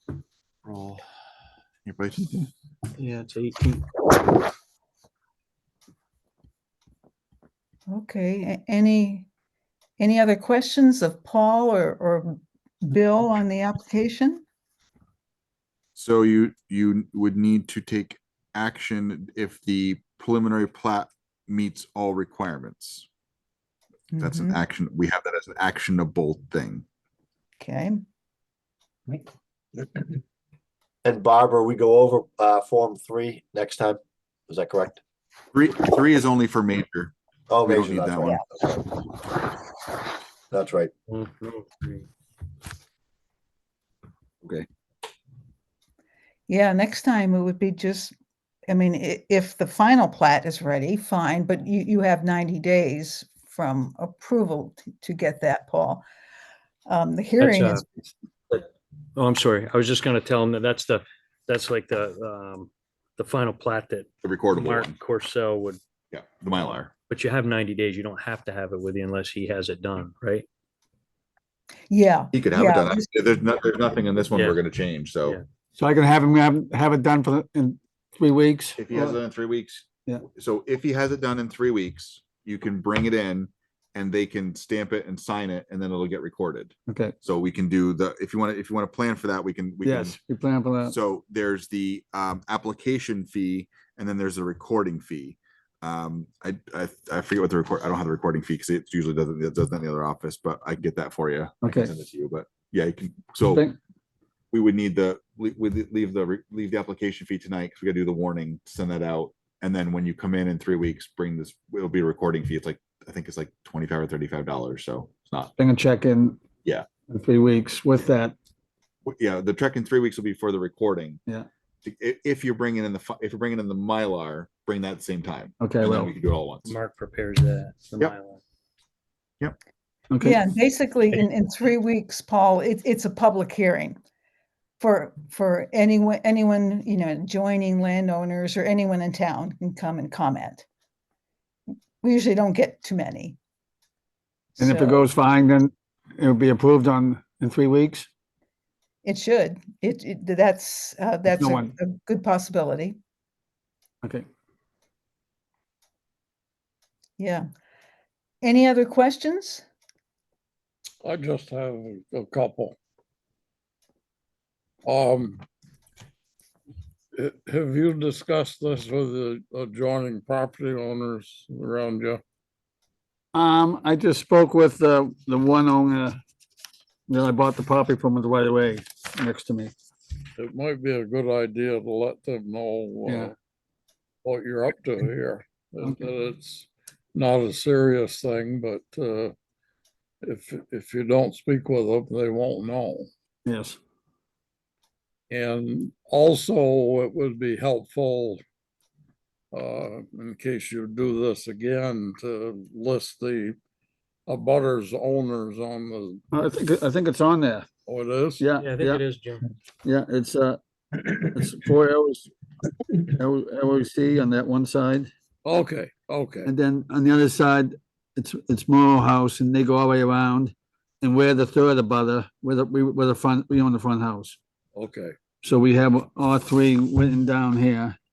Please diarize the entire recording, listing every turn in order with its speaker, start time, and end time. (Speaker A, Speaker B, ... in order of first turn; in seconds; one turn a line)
Speaker A: 0.6-1.0
Speaker A: 1.8-2.4
Speaker B: 3.0-3.8
Speaker C: 7.9-9.3
Speaker C: 10.0-14.4
Speaker A: 15.9-23.1
Speaker C: 24.1-24.6
Speaker A: 24.2-26.8
Speaker C: 27.6-28.0
Speaker D: 29.8-30.1
Speaker D: 31.0-35.0
Speaker A: 35.5-37.1
Speaker D: 37.5-38.8
Speaker A: 37.6-38.4
Speaker D: 40.5-40.9
Speaker B: 41.1-42.1
Speaker C: 46.5-48.1
Speaker C: 48.7-56.0
Speaker C: 56.9-57.9
Speaker B: 57.4-57.8
Speaker B: 58.5-65.8
Speaker A: 64.2-65.0
Speaker A: 66.1-66.9
Speaker B: 67.1-70.5
Speaker C: 71.9-73.0
Speaker A: 72.3-75.4
Speaker B: 74.3-74.6
Speaker E: 75.8-79.2
Speaker A: 78.8-90.2
Speaker E: 86.9-87.1
Speaker E: 89.8-90.9
Speaker A: 90.8-103.7
Speaker E: 101.6-101.9
Speaker A: 104.5-115.5
Speaker E: 115.6-116.4
Speaker E: 117.1-118.3
Speaker A: 119.0-121.2
Speaker A: 121.8-126.7
Speaker E: 125.6-126.1
Speaker B: 126.6-128.4
Speaker E: 130.1-130.4
Speaker C: 130.2-134.0
Speaker C: 134.8-140.7
Speaker C: 142.0-143.4
Speaker C: 144.6-145.1
Speaker E: 144.6-148.1
Speaker C: 149.0-153.0
Speaker E: 151.3-151.7
Speaker C: 157.2-157.4
Speaker C: 158.4-159.7
Speaker F: 161.0-162.8
Speaker F: 164.8-165.4
Speaker F: 167.1-172.2
Speaker E: 173.3-176.2
Speaker E: 177.1-179.7
Speaker F: 180.3-183.3
Speaker E: 183.1-183.3
Speaker F: 184.2-189.3
Speaker F: 190.2-193.1
Speaker E: 193.4-193.8
Speaker F: 195.3-198.4
Speaker F: 199.5-203.6
Speaker F: 204.3-206.2
Speaker E: 206.3-207.7
Speaker F: 207.9-208.5
Speaker E: 208.4-209.0
Speaker B: 208.6-209.5
Speaker E: 209.8-212.3
Speaker E: 212.9-215.1
Speaker F: 215.4-216.5
Speaker E: 216.4-224.4
Speaker F: 224.7-225.1
Speaker E: 225.4-227.9